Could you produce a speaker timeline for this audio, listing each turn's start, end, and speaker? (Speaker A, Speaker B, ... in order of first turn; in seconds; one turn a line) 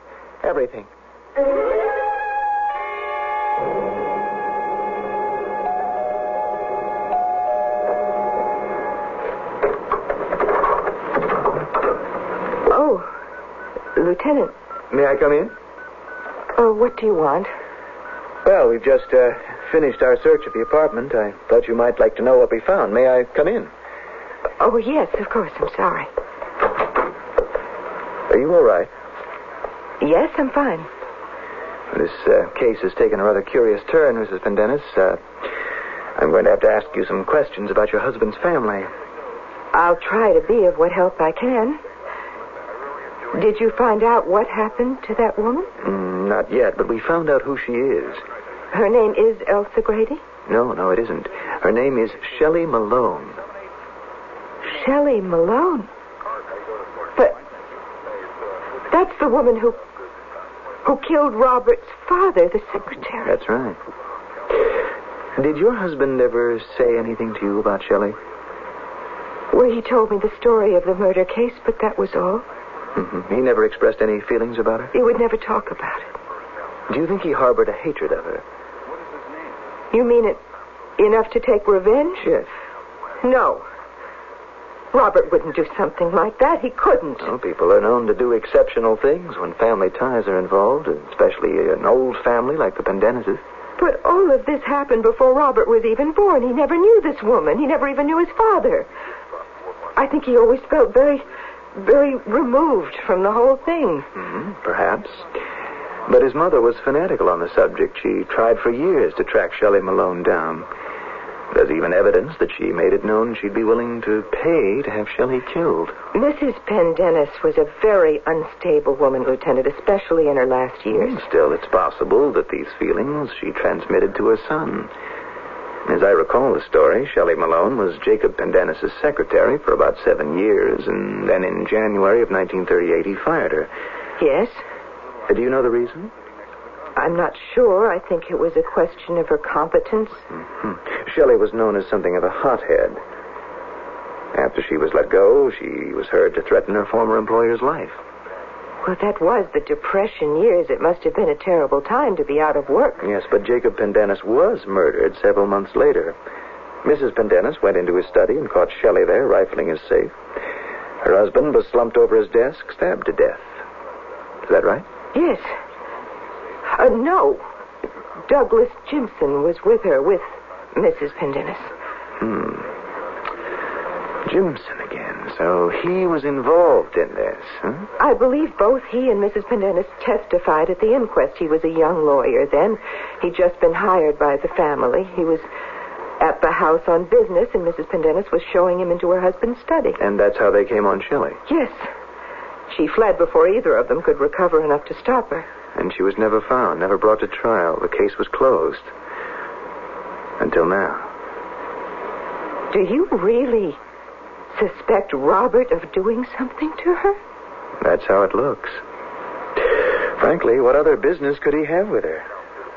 Speaker A: 0.4-0.9
Speaker B: 12.7-13.1
Speaker B: 14.0-14.5
Speaker A: 14.9-15.5
Speaker B: 16.6-17.5
Speaker A: 18.4-23.7
Speaker B: 24.6-26.1
Speaker A: 28.3-28.9
Speaker B: 30.0-30.9
Speaker A: 31.9-35.5
Speaker A: 36.2-38.9
Speaker B: 39.7-41.8
Speaker B: 43.3-45.7
Speaker A: 45.8-48.2
Speaker B: 48.7-50.2
Speaker A: 50.5-53.4
Speaker B: 54.7-55.9
Speaker B: 58.9-59.8
Speaker B: 60.9-63.3
Speaker A: 63.2-63.8
Speaker A: 65.4-68.2
Speaker B: 69.5-72.5
Speaker A: 73.0-74.9
Speaker B: 74.9-76.1
Speaker A: 76.9-78.4
Speaker B: 79.9-80.4
Speaker B: 81.0-82.3
Speaker A: 82.2-82.5
Speaker B: 83.2-83.7
Speaker B: 84.9-87.3
Speaker A: 87.2-93.4
Speaker B: 93.8-98.9
Speaker B: 100.0-104.1
Speaker A: 104.2-105.3
Speaker A: 106.1-110.7
Speaker A: 111.5-116.0
Speaker B: 116.1-121.2
Speaker A: 120.9-124.9
Speaker A: 125.9-133.7
Speaker B: 134.2-134.6
Speaker A: 135.3-136.1
Speaker B: 137.0-140.2
Speaker A: 140.3-143.0
Speaker A: 144.3-148.0
Speaker B: 148.8-153.0
Speaker A: 153.0-156.2
Speaker A: 156.8-160.1
Speaker A: 161.0-163.5
Speaker A: 164.5-164.9
Speaker B: 165.1-165.5
Speaker B: 166.7-167.4
Speaker B: 168.3-171.7
Speaker A: 172.2-172.7
Speaker A: 174.3-177.9
Speaker B: 178.0-185.4
Speaker B: 186.2-190.0
Speaker A: 190.0-191.4
Speaker B: 191.5-191.9
Speaker B: 192.7-195.5
Speaker A: 195.8-198.9
Speaker A: 200.4-201.1
Speaker B: 202.7-203.8
Speaker B: 204.5-207.2
Speaker A: 207.8-208.8
Speaker A: 209.6-212.3